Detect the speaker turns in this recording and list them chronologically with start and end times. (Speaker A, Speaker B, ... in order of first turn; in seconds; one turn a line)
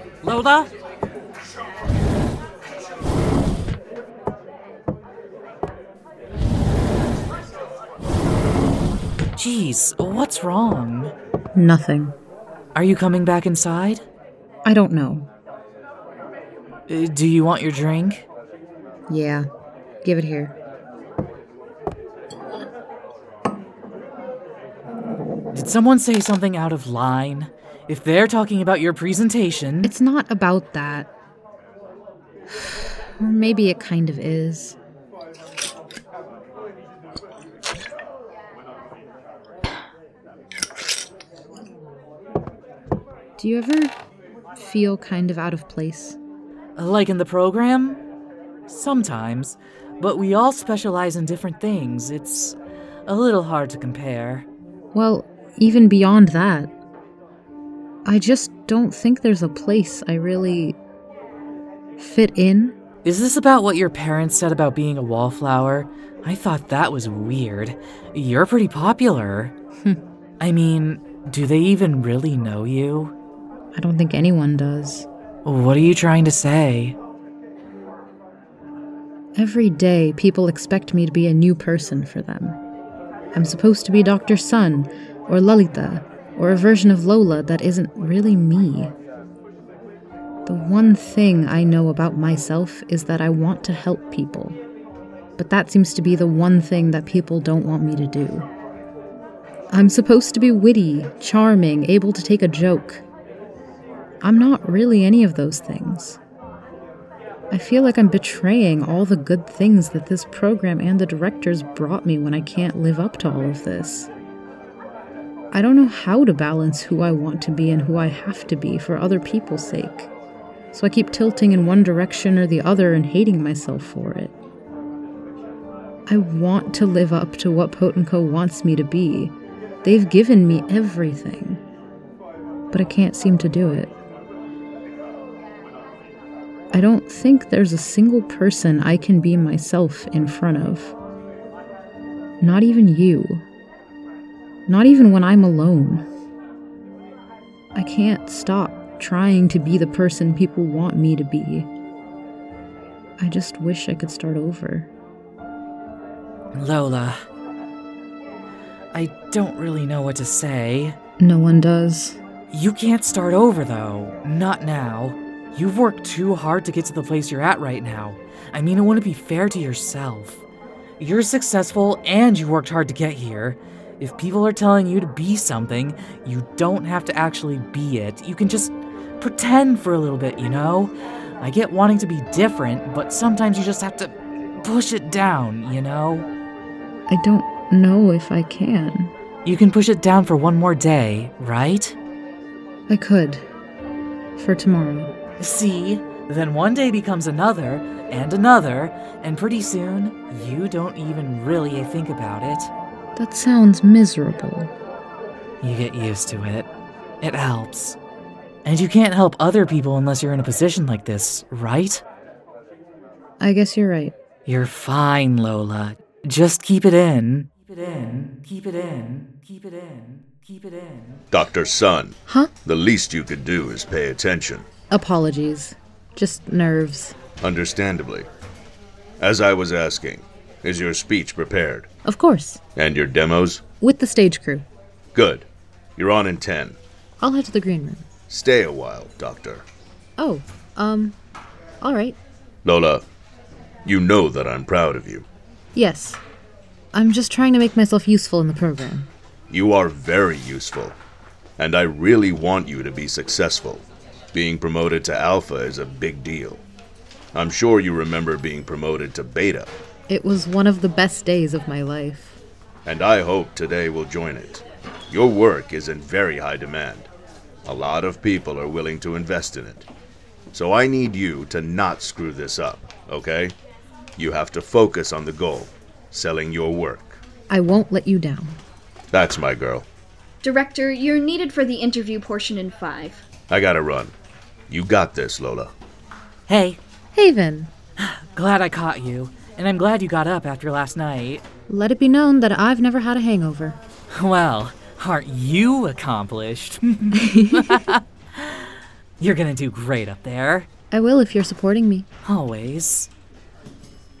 Speaker A: 0.2-0.7
Speaker A: 9.3-11.1
Speaker B: 11.5-12.1
Speaker A: 12.7-14.0
Speaker B: 14.6-15.3
Speaker A: 16.9-18.2
Speaker B: 19.1-19.5
Speaker B: 20.0-20.5
Speaker A: 25.5-29.9
Speaker B: 29.8-31.1
Speaker B: 32.5-34.8
Speaker B: 43.4-43.9
Speaker B: 44.5-46.2
Speaker A: 46.8-48.0
Speaker A: 48.7-52.5
Speaker A: 53.1-54.5
Speaker B: 54.9-56.7
Speaker B: 58.0-60.8
Speaker B: 62.0-62.8
Speaker A: 63.0-69.5
Speaker A: 70.4-73.1
Speaker B: 73.7-75.1
Speaker A: 75.4-77.0
Speaker B: 79.3-82.6
Speaker B: 83.3-88.9
Speaker B: 90.5-94.6
Speaker B: 95.4-98.5
Speaker B: 99.7-103.0
Speaker B: 104.2-106.2
Speaker B: 107.5-114.1
Speaker B: 115.5-120.1
Speaker B: 120.7-124.3
Speaker B: 126.1-131.6
Speaker B: 132.7-133.9
Speaker B: 136.7-140.9
Speaker B: 142.4-143.4
Speaker B: 144.7-146.0
Speaker B: 147.7-151.7
Speaker B: 153.2-154.9
Speaker A: 156.5-157.2
Speaker A: 158.9-161.0
Speaker B: 161.2-162.2
Speaker A: 162.5-170.4
Speaker A: 171.0-186.2
Speaker B: 187.1-189.1
Speaker A: 189.4-191.9
Speaker B: 192.9-193.4
Speaker B: 194.4-195.1
Speaker A: 195.4-202.7
Speaker B: 203.2-204.7
Speaker A: 205.6-206.7
Speaker A: 207.2-208.0
Speaker A: 208.6-212.0
Speaker B: 213.4-214.1
Speaker A: 214.4-221.2
Speaker C: 221.3-224.7
Speaker B: 224.9-227.2
Speaker C: 227.4-228.3
Speaker C: 229.2-231.9
Speaker B: 232.0-232.6
Speaker C: 232.8-233.6
Speaker B: 233.8-234.7
Speaker C: 235.1-235.4
Speaker C: 236.0-236.8
Speaker B: 237.2-238.1
Speaker C: 238.3-239.6
Speaker B: 240.2-241.2
Speaker B: 241.8-242.2
Speaker C: 242.6-243.0
Speaker C: 243.8-245.2
Speaker B: 245.7-246.2
Speaker B: 246.9-249.1
Speaker C: 249.5-251.0
Speaker C: 251.6-256.6
Speaker C: 257.3-259.7
Speaker B: 260.1-262.4
Speaker C: 262.8-267.1
Speaker C: 267.6-269.9
Speaker C: 270.5-273.5
Speaker C: 274.2-277.2
Speaker B: 277.5-278.6
Speaker C: 279.1-279.9
Speaker D: 280.4-283.2
Speaker C: 283.5-284.1
Speaker C: 284.7-285.7
Speaker A: 286.5-286.8
Speaker B: 287.1-287.7
Speaker A: 288.0-291.4
Speaker B: 291.7-293.8
Speaker A: 294.1-300.7
Speaker B: 297.2-297.8
Speaker B: 300.9-302.1
Speaker A: 302.2-303.1